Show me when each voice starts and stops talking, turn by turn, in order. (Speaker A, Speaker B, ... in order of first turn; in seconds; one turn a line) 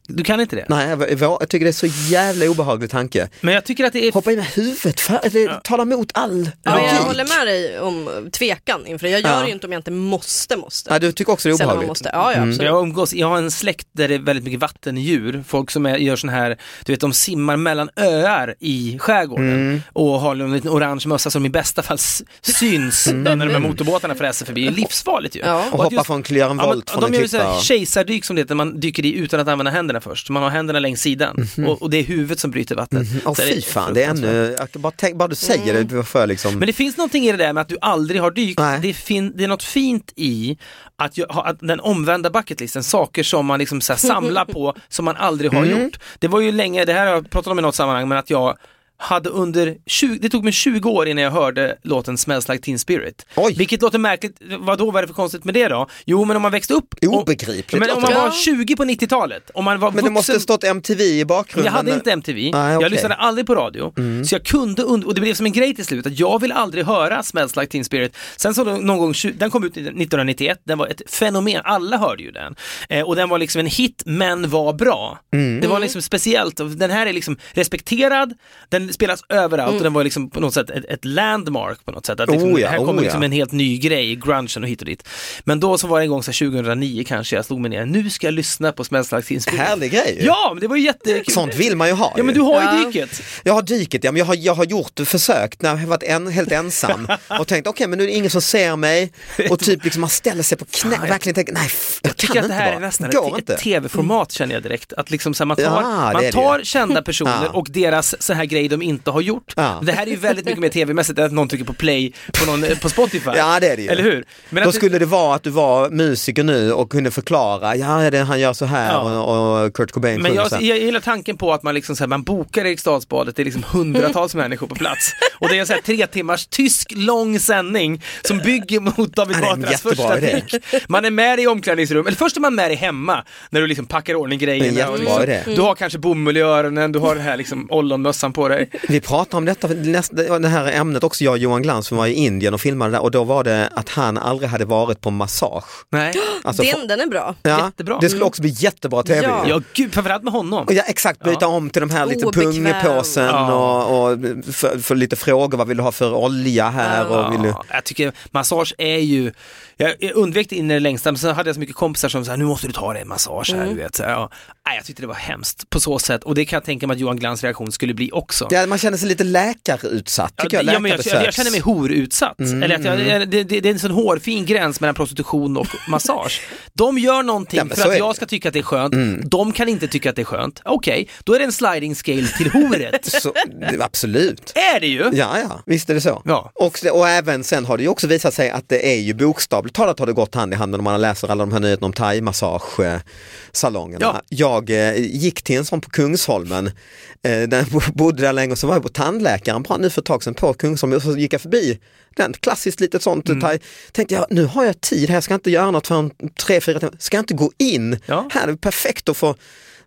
Speaker A: 0.1-0.7
Speaker B: 0.7-3.3
Speaker A: 3.4-4.2
Speaker B: 4.1-7.3
Speaker A: 6.6-7.2
Speaker C: 6.7-12.8
Speaker B: 9.2-9.5
Speaker B: 10.9-12.6
Speaker A: 12.6-26.1
Speaker B: 19.4-19.8
Speaker B: 23.1-23.8
Speaker C: 25.4-25.7
Speaker B: 25.7-27.7
Speaker A: 26.6-34.4
Speaker B: 31.4-31.8
Speaker B: 32.9-36.6
Speaker C: 35.4-35.9
Speaker A: 36.6-60.5
Speaker B: 38.6-38.8
Speaker B: 45.5-45.9
Speaker B: 53.4-53.6
Speaker B: 57.0-58.3
Speaker C: 58.0-58.4
Speaker B: 59.9-63.1
Speaker A: 61.6-91.5
Speaker B: 64.0-64.3
Speaker B: 75.3-75.7
Speaker C: 75.6-75.9
Speaker B: 82.3-83.2
Speaker B: 89.5-90.3
Speaker B: 91.2-92.4
Speaker A: 92.2-93.3
Speaker C: 92.5-92.9
Speaker B: 93.3-103.6
Speaker A: 96.9-97.2
Speaker A: 99.4-99.8
Speaker A: 100.8-101.2
Speaker A: 102.0-114.9
Speaker B: 105.6-106.6
Speaker B: 107.2-107.6
Speaker B: 109.6-109.9
Speaker B: 113.3-114.1
Speaker B: 114.6-120.6
Speaker A: 118.8-119.2
Speaker A: 120.2-138.9
Speaker B: 129.3-130.5
Speaker B: 134.6-135.5
Speaker C: 134.9-135.7
Speaker B: 138.9-145.9
Speaker A: 145.9-146.2
Speaker C: 146.3-147.4
Speaker B: 146.4-146.8
Speaker B: 147.4-149.6
Speaker A: 147.5-148.1
Speaker C: 148.0-148.3
Speaker C: 149.1-149.6
Speaker A: 149.4-151.4
Speaker B: 150.7-157.6
Speaker C: 152.0-153.3
Speaker A: 153.3-153.8
Speaker C: 156.8-157.1
Speaker A: 157.1-168.6
Speaker C: 163.5-163.8
Speaker B: 168.5-171.6
Speaker A: 170.4-183.2
Speaker B: 172.4-173.2
Speaker B: 177.6-178.2
Speaker B: 178.9-179.2
Speaker B: 183.1-184.5
Speaker A: 184.6-185.2
Speaker B: 185.1-193.0
Speaker A: 186.3-186.5
Speaker B: 193.5-196.7
Speaker B: 197.2-209.4